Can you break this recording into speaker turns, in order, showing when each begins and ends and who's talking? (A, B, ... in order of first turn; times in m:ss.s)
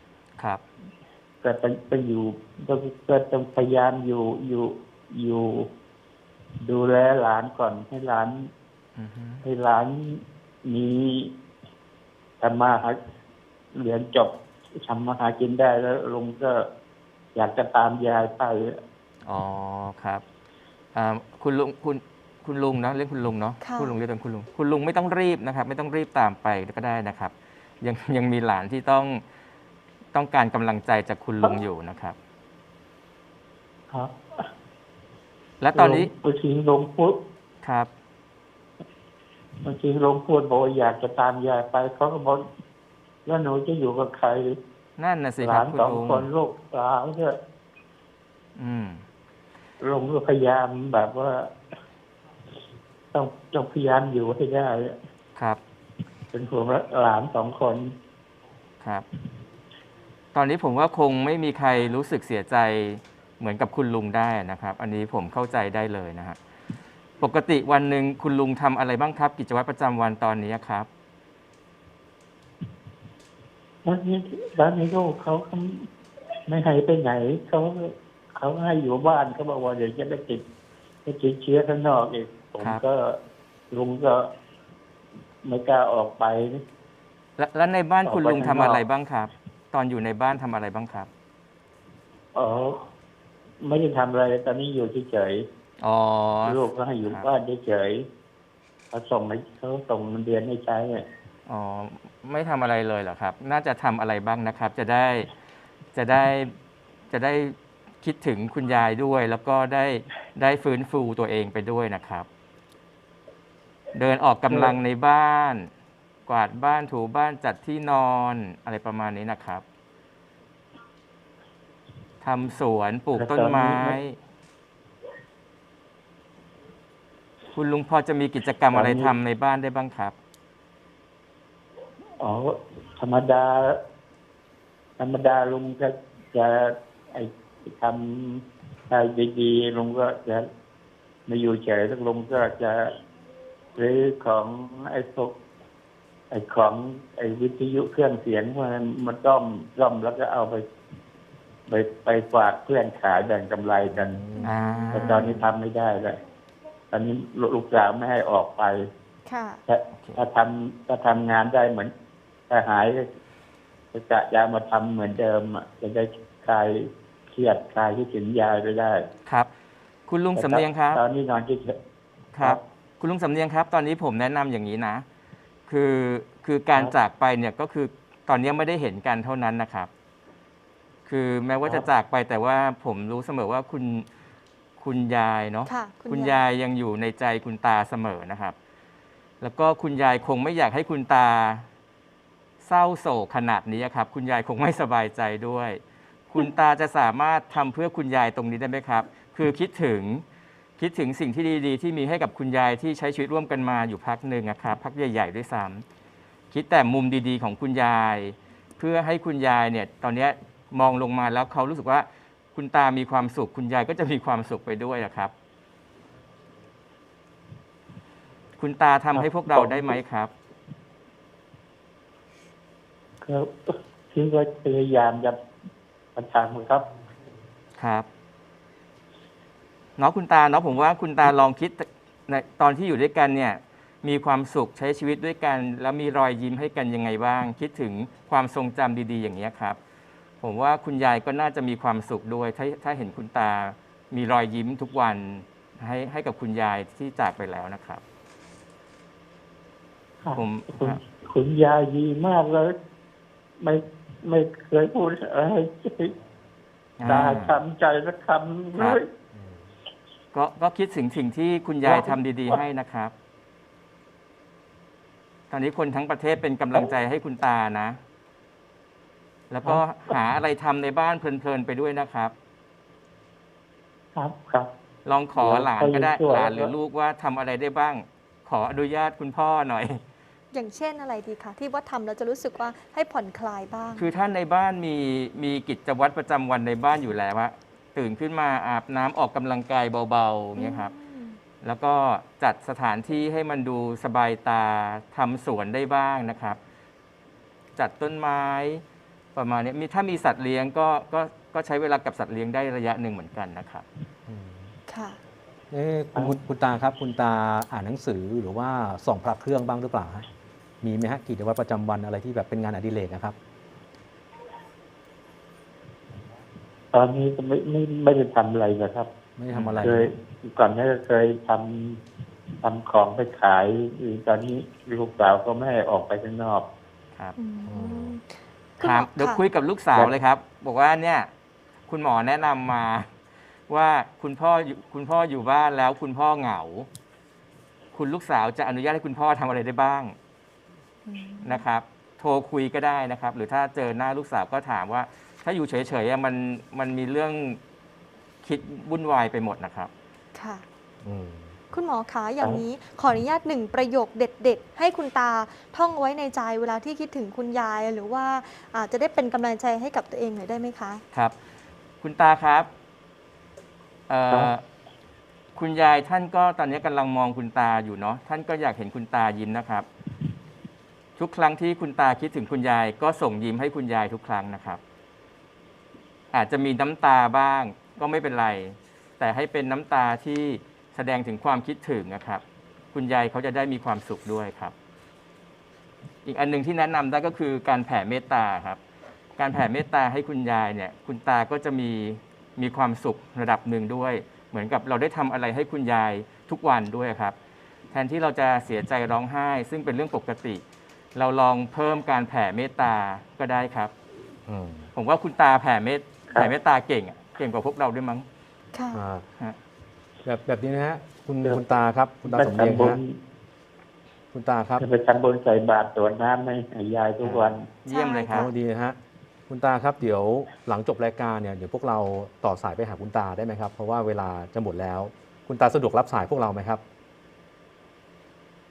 0:00.4-0:00.6 A
0:01.4-0:05.7 B
0:06.6-0:08.5 B
0:09.0-0:09.4 A
0:09.4-0:11.3 B
0:12.4-0:13.0 B
0:13.7-0:16.6 B
0:17.3-0:18.8 B
0:19.2-0:20.2 A
0:20.9-0:29.2 A
0:23.6-0:24.0 C
0:30.1-0:32.2 A
0:33.9-0:34.5 B
0:35.6-0:36.1 A
0:35.7-0:37.2 B
0:37.6-0:37.9 A
0:39.6-0:42.4 B
0:43.2-0:44.6 B
0:45.0-0:46.3 A
0:45.4-0:47.4 B
0:48.6-0:49.0 A
0:49.8-0:51.5 B
0:53.1-0:55.0 B
0:56.3-0:57.9 B
1:00.3-1:06.4 A
1:07.2-1:10.9 A
1:13.8-1:15.9 B
1:16.5-1:20.4 B
1:21.0-1:23.2 B
1:23.7-1:24.3 B
1:25.4-1:26.6 B
1:27.4-1:31.1 A
1:28.0-1:28.8 B
1:32.3-1:32.8 B
1:33.6-1:35.5 B
1:35.8-1:37.3 A
1:36.4-1:38.1 B
1:38.9-1:41.0 B
1:41.4-1:45.3 A
1:45.9-1:46.5 A
1:47.1-1:52.3 A
1:53.9-1:55.7 A
1:54.5-1:54.7 B
1:56.3-1:59.6 A
2:02.2-2:04.2 A
2:03.1-2:04.0 B
2:07.5-2:10.1 A
2:08.7-2:09.1 B
2:12.2-2:13.8 B
2:15.0-2:20.4 B
2:21.2-2:22.9 B
2:23.8-2:25.3 B
2:26.3-2:30.6 B
2:31.7-2:34.2 B
2:33.9-2:34.5 D
2:34.4-2:35.2 C
2:34.4-2:35.5 A
2:34.9-2:36.2 B
2:36.9-2:38.8 B
2:39.2-2:39.6 C
2:39.7-2:41.9 B
2:42.5-2:43.0 B
2:43.9-2:49.0 B
2:50.1-2:51.0 A
2:50.3-2:51.8 B
2:52.3-2:55.0 A
2:55.7-2:59.9 A
3:01.0-3:04.1 A
3:04.8-3:08.5 A
3:05.6-3:06.4 C
3:09.4-3:11.6 A
3:12.6-3:20.2 A
3:20.8-3:25.8 A
3:26.5-3:35.3 A
3:38.6-3:40.3 A
3:39.1-3:40.0 B
3:43.2-3:45.4 B
3:46.1-3:46.8 B
3:47.8-3:48.1 A
3:50.0-3:59.8 A
4:00.4-4:08.0 A
4:10.2-4:12.8 B
4:10.3-4:11.0 A
4:13.6-4:16.1 B
4:17.0-4:17.6 A
4:17.0-4:19.0 B
4:20.3-4:23.1 A
4:21.8-4:22.6 B
4:25.5-4:28.0 A
4:29.5-4:32.3 A
4:34.1-4:34.7 B
4:35.0-4:40.0 A
4:35.4-4:36.7 B
4:40.5-4:44.1 C
4:43.9-4:50.9 A
4:50.6-4:51.4 C
4:51.6-4:56.6 A
4:57.8-4:58.8 A
4:59.3-5:03.8 A
5:04.3-5:04.7 D
5:04.9-5:05.2 C
5:05.7-5:10.3 D
5:10.8-5:13.4 D
5:16.9-5:19.1 B
5:19.4-5:20.1 D
5:19.5-5:19.9 A
5:19.8-5:22.0 B
5:22.6-5:26.7 B
5:27.4-5:29.4 C
5:27.6-5:28.2 D
5:28.8-5:31.3 A
5:31.9-5:33.1 A
5:33.7-5:36.9 A
5:37.9-5:40.2 A
5:41.0-5:41.6 C
5:41.4-5:47.6 A
5:48.4-5:49.9 A
5:50.3-5:50.6 C
5:51.0-5:51.6 D
5:51.7-6:01.0 C
6:02.0-6:02.7 A
6:04.1-6:04.6 A
6:05.5-6:09.9 A
6:11.2-6:14.8 A
6:16.3-6:24.7 A
6:26.2-6:28.8 A
6:29.4-6:37.3 A
6:37.9-6:40.6 A
6:41.1-6:43.9 A
6:44.5-6:44.9 D
6:44.9-6:48.2 A
6:48.7-6:49.0 C
6:48.9-6:49.2 D
6:50.2-6:53.0 D
6:52.2-6:53.2 B
6:54.3-6:54.8 D
6:54.8-6:57.6 B
6:57.2-6:57.6 D
6:57.8-6:58.5 A
6:57.9-6:58.5 C
6:58.3-6:59.0 D
6:59.5-7:06.8 D